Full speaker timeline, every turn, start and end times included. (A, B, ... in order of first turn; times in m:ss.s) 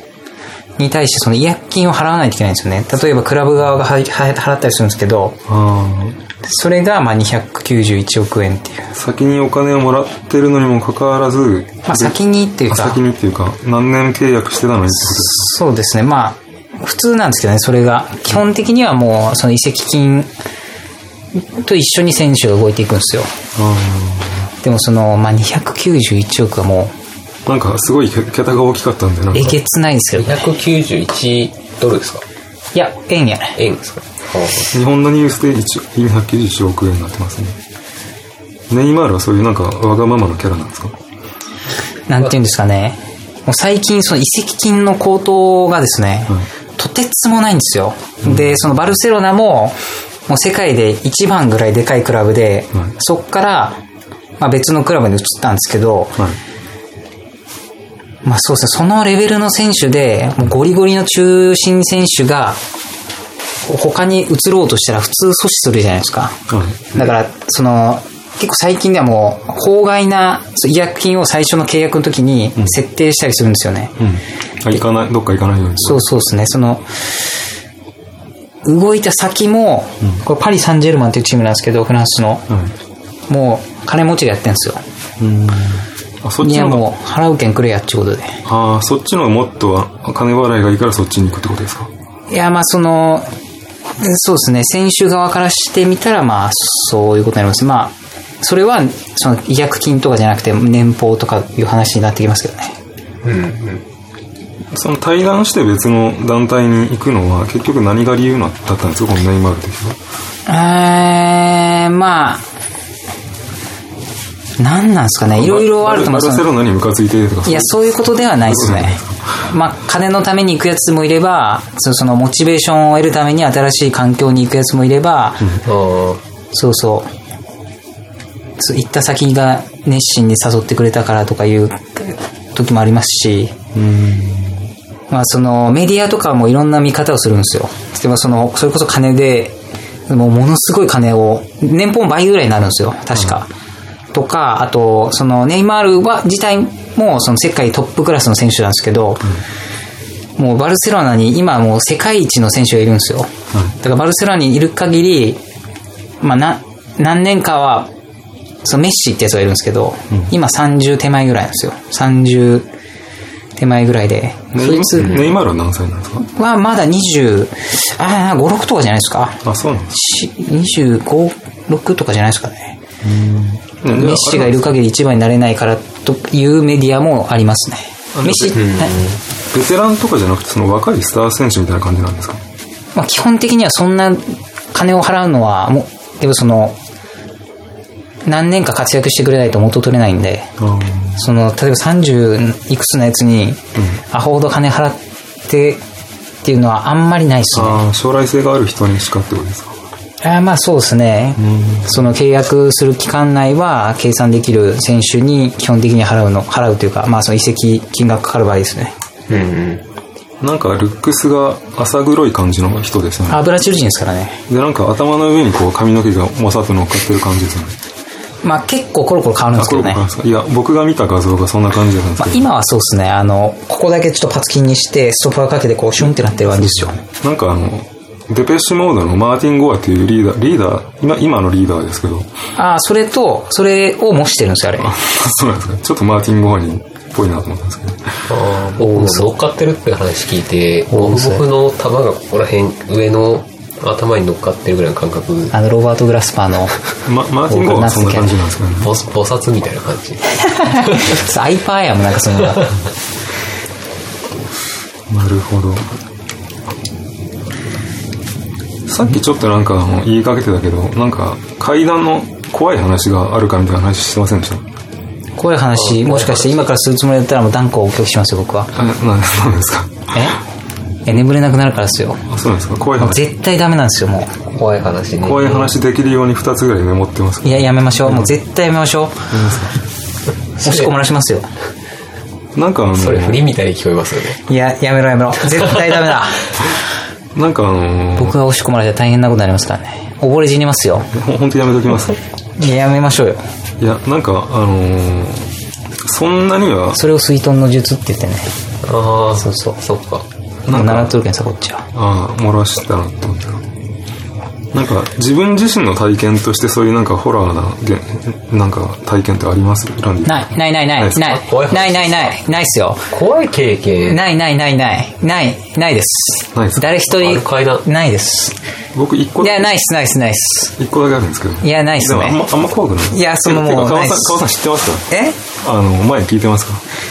0:00.8-0:05.4 A
0:05.5-0:06.2 B
0:06.4-0:08.9 A
0:08.9-0:12.2 B
0:11.9-0:13.0 A
0:12.7-0:15.5 B
0:15.0-0:20.3 A
0:21.4-0:23.3 A
0:23.6-0:24.5 B
0:24.6-0:26.9 A
0:27.5-0:29.6 B
0:29.3-0:30.5 A
0:30.2-0:32.2 C
0:32.8-0:33.6 A
0:33.6-0:34.8 C
0:34.7-0:37.6 B
0:38.7-0:41.0 B
0:42.1-0:53.8 A
0:48.2-0:48.7 B
0:54.4-0:56.2 A
0:58.2-1:02.6 A
1:03.7-1:06.4 A
1:06.5-1:06.9 B
1:06.9-1:14.0 A
1:14.0-1:16.0 B
1:15.8-1:17.0 A
1:18.6-1:22.5 A
1:23.3-1:24.8 A
1:25.2-1:26.9 B
1:26.4-1:28.4 A
1:28.5-1:31.9 B
1:32.3-1:33.3 A
1:34.0-1:42.8 A
1:43.2-1:43.8 C
1:44.7-1:50.0 B
1:50.5-1:52.4 A
1:54.6-1:56.4 A
1:55.3-1:59.4 B
1:57.4-2:05.5 A
2:05.6-2:06.2 C
2:06.5-2:07.1 A
2:08.6-2:13.6 A
2:13.7-2:14.7 B
2:15.1-2:23.5 A
2:24.1-2:29.3 A
2:30.4-2:35.4 A
2:36.2-2:37.9 A
2:38.6-2:42.7 A
2:43.6-2:45.2 A
2:44.5-2:46.2 B
2:46.2-2:52.8 A
2:49.4-2:50.0 B
2:53.0-2:54.8 B
2:53.9-2:59.0 A
2:58.2-2:58.7 B
2:58.5-2:59.2 C
2:59.5-3:02.4 B
3:03.0-3:06.8 A
3:08.2-3:10.5 A
3:10.6-3:11.2 B
3:11.2-3:15.8 A
3:16.4-3:17.8 A
3:17.5-3:19.8 B
3:20.2-3:28.9 A
3:21.4-3:22.0 B
3:29.3-3:29.8 C
3:30.4-3:33.4 B
3:33.3-3:34.4 A
3:34.5-3:37.8 B
3:38.4-3:40.0 A
3:39.6-3:42.4 B
3:42.2-3:47.0 A
3:46.0-3:52.3 B
3:52.6-3:54.9 A
3:54.8-3:58.3 B
3:58.3-4:05.6 C
3:58.8-3:59.3 A
4:00.9-4:01.4 A
4:05.5-4:06.8 A
4:07.0-4:08.9 B
4:07.5-4:08.4 A
4:08.8-4:11.1 C
4:10.4-4:12.7 A
4:15.1-4:15.9 B
4:18.9-4:24.6 B
4:25.4-4:28.7 A
4:25.8-4:26.7 C
4:28.7-4:30.1 B
4:30.1-4:30.4 A
4:31.1-4:32.3 A
4:32.3-4:33.2 B
4:33.0-4:34.4 A
4:34.5-4:35.8 C
4:35.2-4:38.4 B
4:37.4-4:39.3 A
4:39.3-4:39.8 B
4:40.6-4:41.5 A
4:40.6-4:40.9 C
4:42.6-4:43.4 B
4:43.0-4:44.4 C
4:44.5-4:46.5 A
4:47.4-4:48.4 B
4:48.2-4:51.1 A
4:51.1-4:52.2 B
4:52.6-4:53.4 A
4:53.8-4:57.0 B
4:56.9-4:58.5 A
4:58.8-5:00.3 C
4:59.4-4:59.8 A
5:00.7-5:01.2 B
5:00.7-5:01.9 A
5:01.9-5:03.6 B
5:04.7-5:11.2 B
5:10.3-5:13.1 A
5:11.2-5:12.4 C
5:13.1-5:14.2 C
5:14.1-5:18.6 A
5:16.5-5:16.8 B
5:17.1-5:17.9 C
5:18.9-5:19.7 B
5:19.4-5:20.8 A
5:20.8-5:25.1 B
5:21.6-5:22.4 A
5:23.1-5:24.5 A
5:25.1-5:25.4 A
5:25.6-5:26.8 B